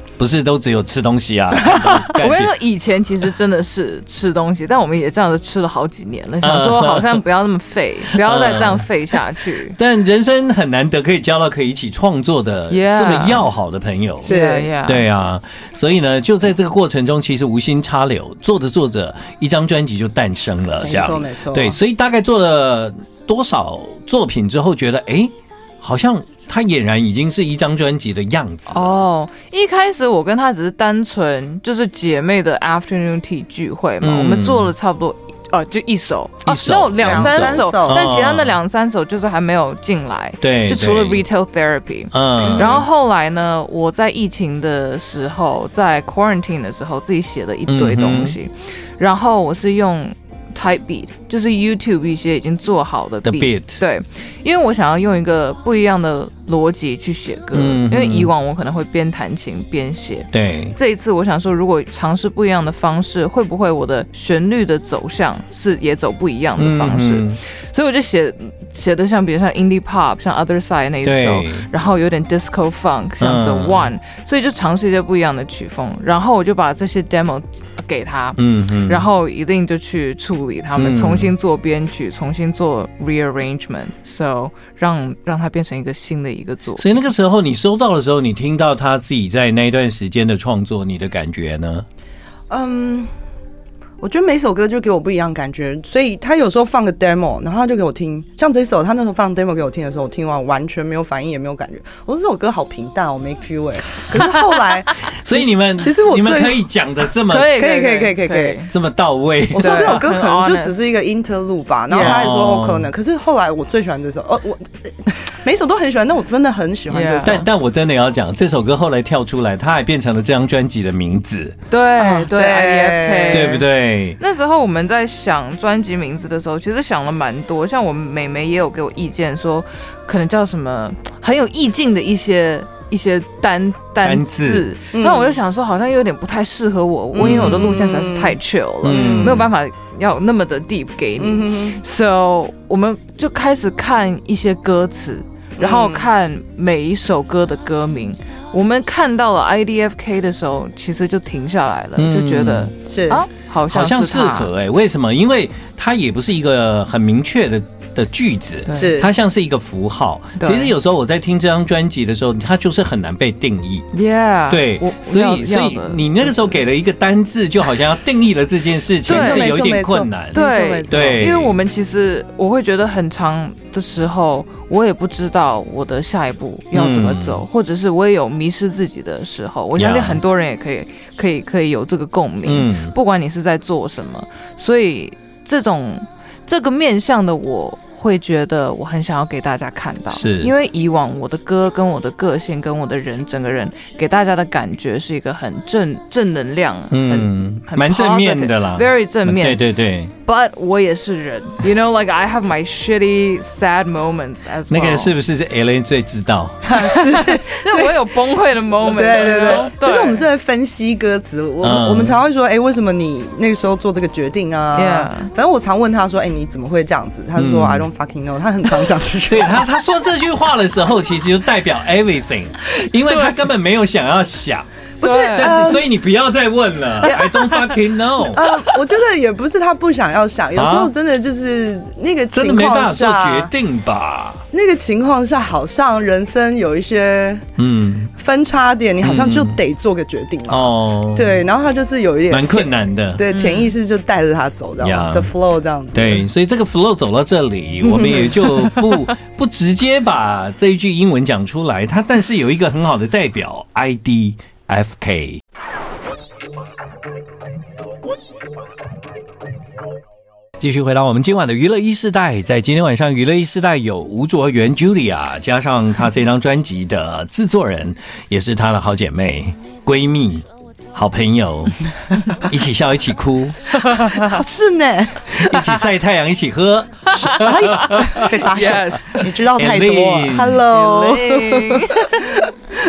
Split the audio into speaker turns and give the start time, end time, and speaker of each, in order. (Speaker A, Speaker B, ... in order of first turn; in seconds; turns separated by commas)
Speaker A: 0.2-2.5, Speaker B: 2.1-9.8, Speaker A: 6.4-7.2, Speaker A: 8.1-8.9, Speaker A: 9.8-14.3, Speaker B: 12.7-13.5, Speaker C: 14.2-14.7, Speaker B: 14.2-15.1, Speaker A: 14.8-29.0, Speaker C: 20.8-21.8, Speaker B: 28.7-87.0, Speaker A: 34.0-34.7, Speaker A: 36.5-38.5, Speaker C: 37.0-38.0, Speaker A: 40.4-41.2, Speaker A: 42.1-42.8, Speaker C: 42.4-42.9, Speaker A: 47.7-48.4, Speaker A: 53.2-53.8, Speaker A: 57.5-58.3, Speaker A: 60.3-60.8, Speaker A: 66.6-67.4, Speaker A: 71.0-71.7, Speaker A: 73.2-73.9, Speaker A: 78.4-79.0, Speaker A: 80.8-81.3, Speaker A: 86.8-91.9, Speaker C: 92.5-93.1, Speaker C: 94.0-106.7, Speaker A: 105.1-107.6, Speaker B: 107.3-108.7, Speaker C: 107.5-108.6, Speaker A: 108.7-110.0, Speaker C: 109.5-117.5, Speaker B: 109.6-110.8, Speaker B: 111.9-112.3, Speaker A: 112.0-112.9, Speaker B: 116.9-117.5, Speaker A: 117.2-121.6, Speaker B: 121.7-154.5, Speaker C: 122.0-123.6, Speaker A: 123.3-124.2, Speaker A: 134.0-134.7, Speaker C: 134.9-135.4, Speaker C: 137.1-139.5, Speaker A: 137.2-137.5, Speaker A: 138.8-139.5, Speaker C: 141.2-141.8, Speaker C: 145.6-146.1, Speaker A: 152.0-152.7, Speaker C: 152.8-153.3, Speaker A: 153.7-163.9, Speaker B: 158.7-159.0, Speaker C: 158.7-159.1, Speaker B: 160.4-160.7, Speaker B: 163.9-166.6, Speaker A: 164.5-171.6, Speaker B: 169.1-169.6, Speaker C: 169.1-171.3, Speaker B: 170.3-205.2, Speaker A: 176.7-177.4, Speaker A: 179.8-180.2, Speaker A: 182.4-182.9, Speaker A: 190.1-190.5, Speaker A: 196.9-200.1, Speaker A: 204.7-206.7, Speaker C: 206.6-208.2, Speaker B: 206.8-210.3, Speaker C: 208.8-219.7, Speaker A: 211.6-212.2, Speaker B: 214.8-215.3, Speaker A: 217.4-217.9, Speaker A: 219.3-228.5, Speaker C: 225.0-225.8, Speaker B: 225.0-225.8, Speaker C: 227.0-227.6, Speaker C: 228.3-233.5, Speaker A: 230.6-230.9, Speaker A: 232.3-234.4, Speaker C: 234.5-237.5, Speaker A: 237.6-238.1, Speaker C: 238.2-246.2, Speaker A: 239.0-239.6, Speaker A: 240.5-241.4, Speaker A: 242.3-243.2, Speaker B: 243.3-243.7, Speaker A: 244.8-245.3, Speaker A: 245.9-255.4, Speaker C: 247.8-248.3, Speaker A: 260.6-271.8, Speaker A: 272.3-273.8, Speaker B: 273.8-274.4, Speaker C: 274.0-275.5, Speaker A: 275.3-278.3, Speaker B: 277.2-279.4, Speaker C: 277.3-282.5, Speaker A: 279.6-280.6, Speaker B: 280.7-282.4